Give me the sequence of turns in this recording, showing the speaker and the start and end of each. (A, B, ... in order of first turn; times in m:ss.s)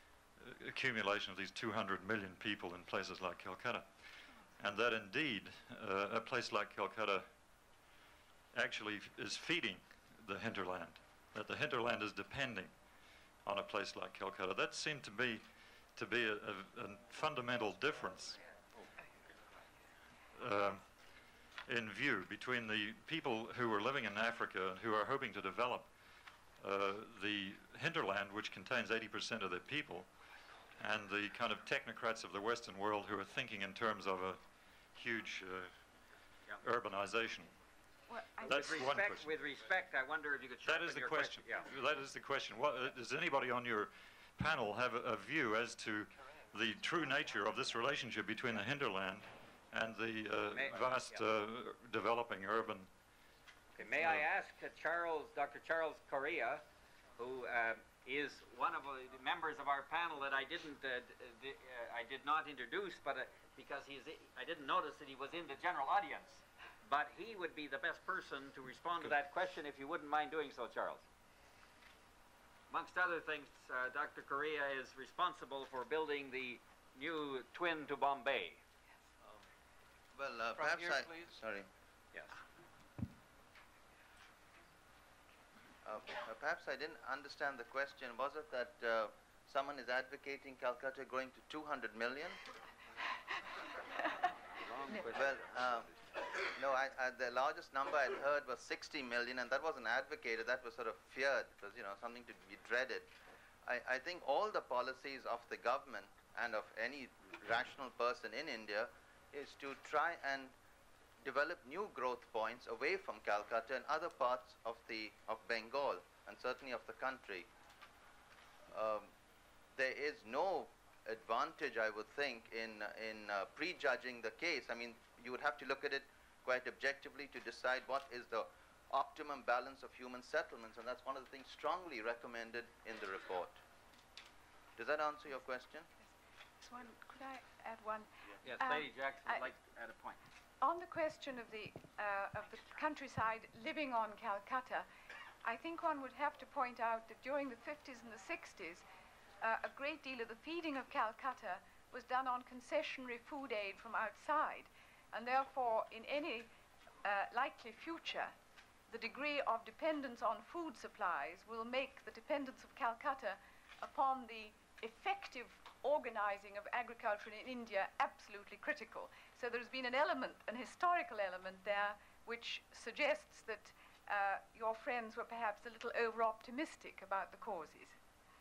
0:00.4-0:07.3 A
0:08.5-0:12.8 A
0:13.4-0:18.4 A
0:20.4-0:25.9 A
0:26.6-0:30.1 A
0:30.8-0:35.8 A
0:36.6-0:37.5 A
0:38.1-0:39.0 B
0:38.4-0:39.4 A
0:38.5-0:41.7 C
0:40.6-0:52.9 A
0:50.5-0:51.2 C
0:53.8-0:56.6 C
0:54.0-0:54.2 A
0:57.2-1:11.0 C
1:12.7-1:18.6 C
1:20.2-1:21.7 D
1:25.8-1:32.4 D
1:34.8-1:43.1 D
1:43.6-1:50.5 D
1:51.2-1:57.5 D
1:58.7-1:59.1 D
1:59.8-2:13.6 D
2:14.8-2:15.9 D
2:16.6-2:18.1 B
2:18.4-2:20.2 C
2:18.6-2:19.5 B
2:20.6-2:24.9 B
2:25.4-2:28.8 B
2:29.4-2:36.5 B
2:37.0-2:38.3 B
2:38.9-2:58.0 B